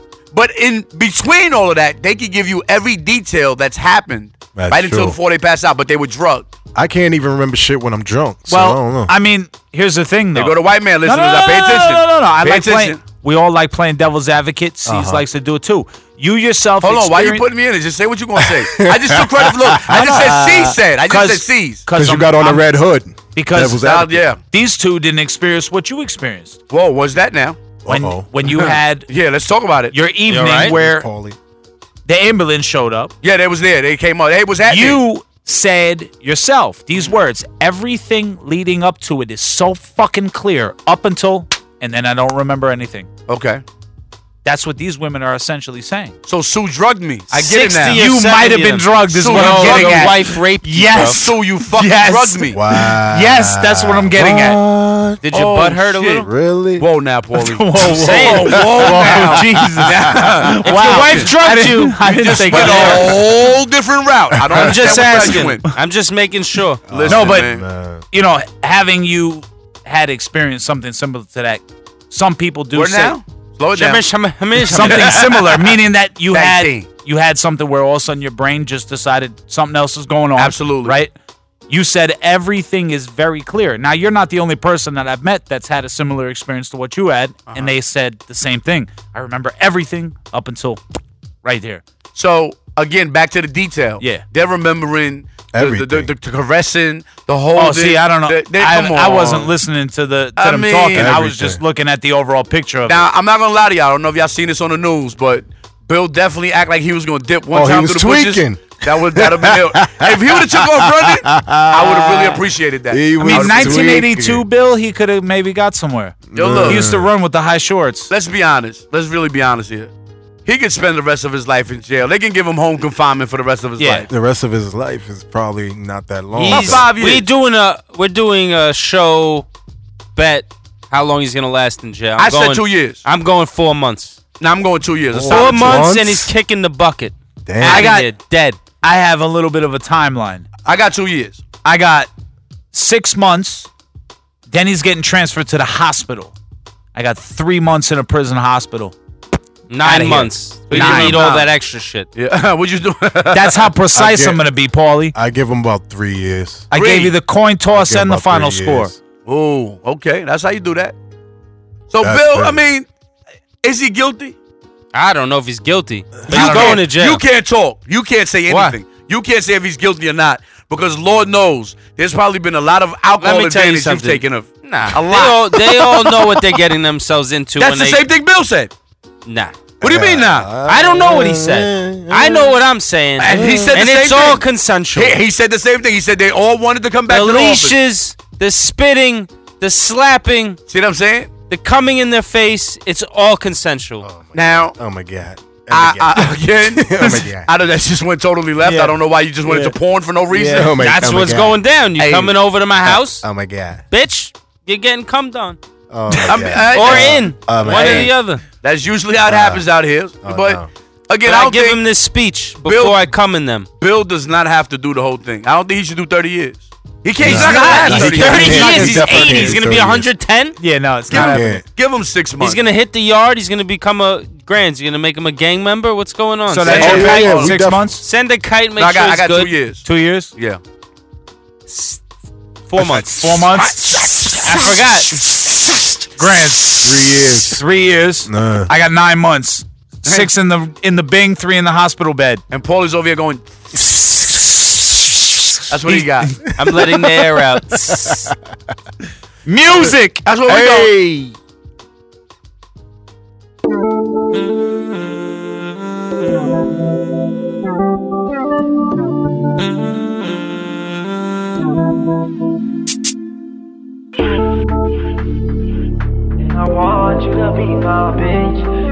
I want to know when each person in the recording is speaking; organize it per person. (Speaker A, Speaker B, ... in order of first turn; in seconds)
Speaker A: 0.3-6.5, 10.3-13.0, 16.8-21.8, 23.8-24.4, 26.7-27.6, 28.6-29.9, 33.2-35.0, 43.3-43.6, 46.3-48.0, 49.1-52.6, 55.3-56.3, 56.8-65.7, 66.9-67.6, 72.7-75.7, 76.3-76.9, 80.4-81.0, 87.5-87.7, 92.1-99.5, 100.4-101.1, 102.9-114.0, 116.3-116.8, 118.1-119.9, 120.5-124.1, 126.4-127.3, 132.2-133.0, 134.4-135.9, 140.7-141.4, 150.7-151.5, 152.1-153.7, 156.7-157.1, 159.2-160.9, 161.9-162.9, 163.6-164.3, 166.3-175.8, 177.6-178.7, 179.8-180.5, 183.2-187.8, 190.7-191.3, 194.3-194.7, 195.7-200.7, 202.0-202.3, 206.2-211.8, 212.6-213.1, 213.8-219.5, 221.1-222.6, 226.6-227.5, 228.8-229.8, 242.5-243.8, 245.7-246.4, 250.2-250.9
Speaker B: 4.5-5.2, 6.7-9.1, 14.8-15.2, 18.4-20.7, 21.9-24.2, 27.9-28.7, 30.6-31.4, 52.5-55.2, 56.2-56.9, 57.8-60.5, 64.5-65.0, 66.9-68.0, 95.5-96.1, 100.9-101.6, 107.5-114.5, 116.3-117.1, 124.1-126.9, 135.1-136.3, 137.4-137.9, 153.9-154.4, 155.1-156.7, 157.7-159.0, 162.0-162.6, 179.8-182.6, 183.2-183.9, 194.0-197.5, 200.3-201.6, 202.8-203.8, 205.9-208.1, 209.2-209.7, 210.2-210.7, 217.2-220.1, 221.1-221.6, 226.7-228.0, 236.8-237.6, 238.2-238.7, 247.8-248.3, 250.5-251.3
Speaker C: 8.5-17.4, 19.9-22.6, 23.4-23.8, 24.5-26.6, 27.9-29.1, 29.9-31.1, 32.0-33.1, 34.7-43.1, 44.4-46.1, 47.9-54.6, 57.4-63.3, 67.1-67.5, 68.1-73.2, 74.7-81.1, 81.7-90.8, 91.4-91.8, 97.5-103.0, 113.2-118.1, 123.8-124.0, 137.7-138.1, 138.8-140.4, 141.6-142.1, 142.7-143.7, 144.5-146.3, 146.9-148.9, 149.8-151.3, 153.3-155.1, 156.7-158.9, 166.3-166.8, 198.7-198.9, 217.3-218.8, 220.6-221.6, 226.5-228.0, 229.8-230.3, 232.9-233.8, 234.4-235.1, 236.2-242.4, 249.5-250.2
Speaker D: 30.2-30.7, 47.3-51.2, 55.2-56.3, 57.9-59.0, 60.6-63.2, 64.5-66.8, 73.7-75.5, 126.3-129.5, 130.1-134.2, 135.2-138.6, 149.7-152.1, 164.9-167.2, 168.5-168.8, 173.2-178.0, 179.2-179.6, 180.6-185.2, 187.1-190.6, 191.5-194.0, 200.7-203.2, 203.9-205.6, 206.7-208.4, 211.2-213.7, 217.2-220.6, 222.4-229.5, 231.7-232.0, 232.7-233.6, 234.5-235.1, 246.6-248.3
Speaker E: 266.6-268.6